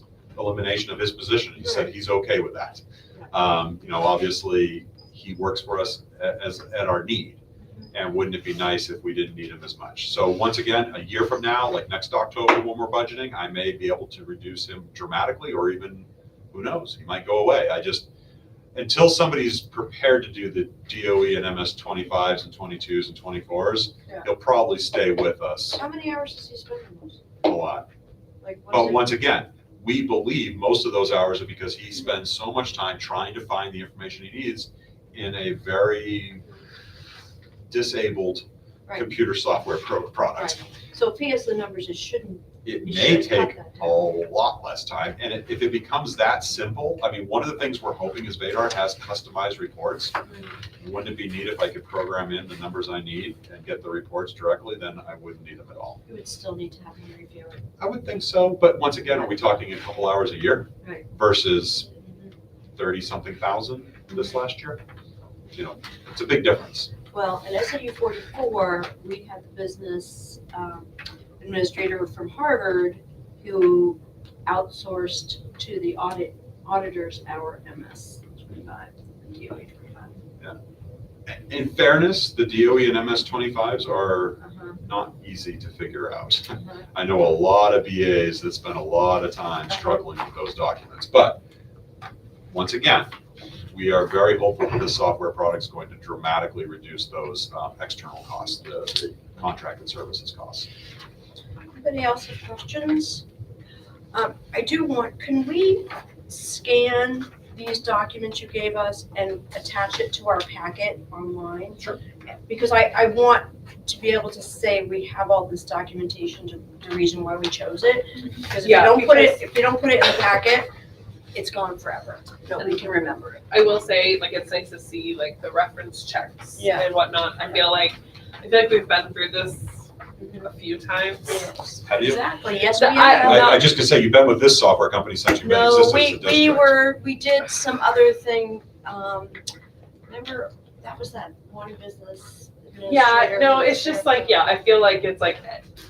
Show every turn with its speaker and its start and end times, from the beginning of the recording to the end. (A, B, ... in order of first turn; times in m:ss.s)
0:00.3-0:07.4 A
0:07.9-0:18.1 A
0:18.7-0:25.8 A
0:25.8-0:27.2 B
0:27.4-0:27.8 A
0:28.4-0:29.2 B
0:28.7-0:36.4 A
0:37.7-0:40.6 A
0:40.4-0:44.0 B
0:42.6-0:50.1 A
0:50.2-0:50.5 B
0:50.8-0:56.0 A
0:56.1-0:57.7 B
0:57.8-1:01.9 A
1:02.0-1:02.3 B
1:02.8-1:04.8 A
1:05.5-1:06.9 A
1:07.1-1:10.9 B
1:11.4-1:20.2 B
1:21.3-1:31.4 A
1:24.4-1:24.8 B
1:26.6-1:26.8 B
1:32.5-1:33.1 A
1:33.7-1:40.7 A
1:41.7-1:43.2 B
1:44.1-1:51.9 B
1:52.5-2:00.7 B
1:58.6-1:59.4 C
2:01.3-2:03.4 B
2:02.6-2:02.9 C
2:03.5-2:09.8 C
2:06.6-2:06.9 B
2:10.4-2:11.4 C
2:11.3-2:13.6 B
2:11.8-2:12.3 A
2:12.8-2:13.7 C
2:13.1-2:16.8 A
2:15.4-2:19.4 B
2:20.1-2:24.4 B
2:22.8-2:25.6 C